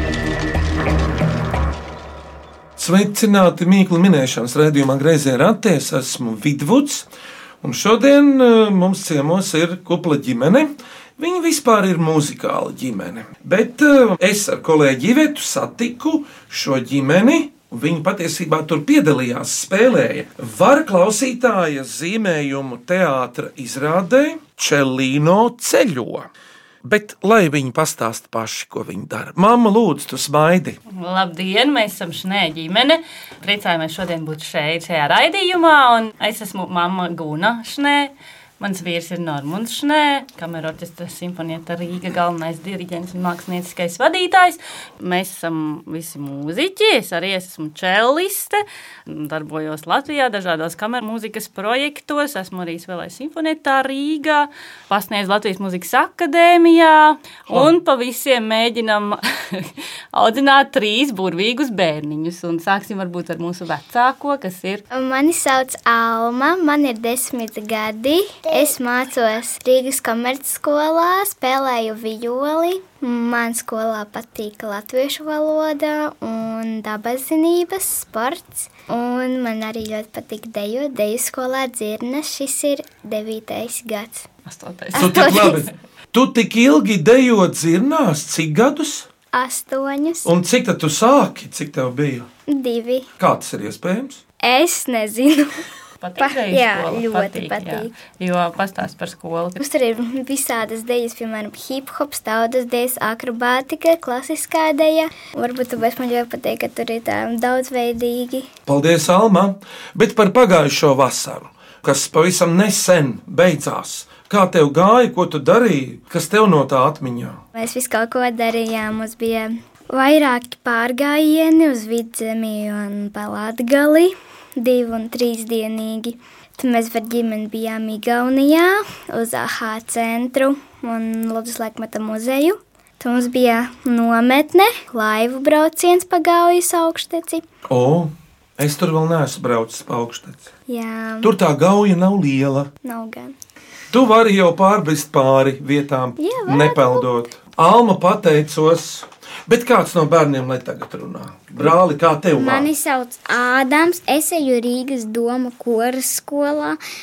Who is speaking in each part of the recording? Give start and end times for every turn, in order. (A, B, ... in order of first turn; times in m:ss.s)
0:02.8-0:07.0 A
0:07.6-0:26.3 A
0:26.8-0:30.8 A
0:30.9-1:04.8 B
1:04.9-1:24.2 C
1:24.4-1:25.7 B
1:25.0-1:25.6 C
1:25.0-1:29.1 A
1:29.3-1:30.3 C
1:30.2-1:32.3 A
1:32.5-1:33.0 C
1:33.2-1:34.2 A
1:34.4-1:35.5 C
1:36.0-1:39.6 B
1:36.2-1:37.9 C
1:39.6-1:48.5 C
1:48.7-1:57.4 A
1:57.5-2:17.4 C
2:17.7-2:20.5 A
2:20.7-2:21.3 C
2:21.2-2:22.7 A
2:22.8-2:23.3 C
2:23.9-2:32.7 A
2:26.2-2:27.0 C
2:32.3-2:36.8 D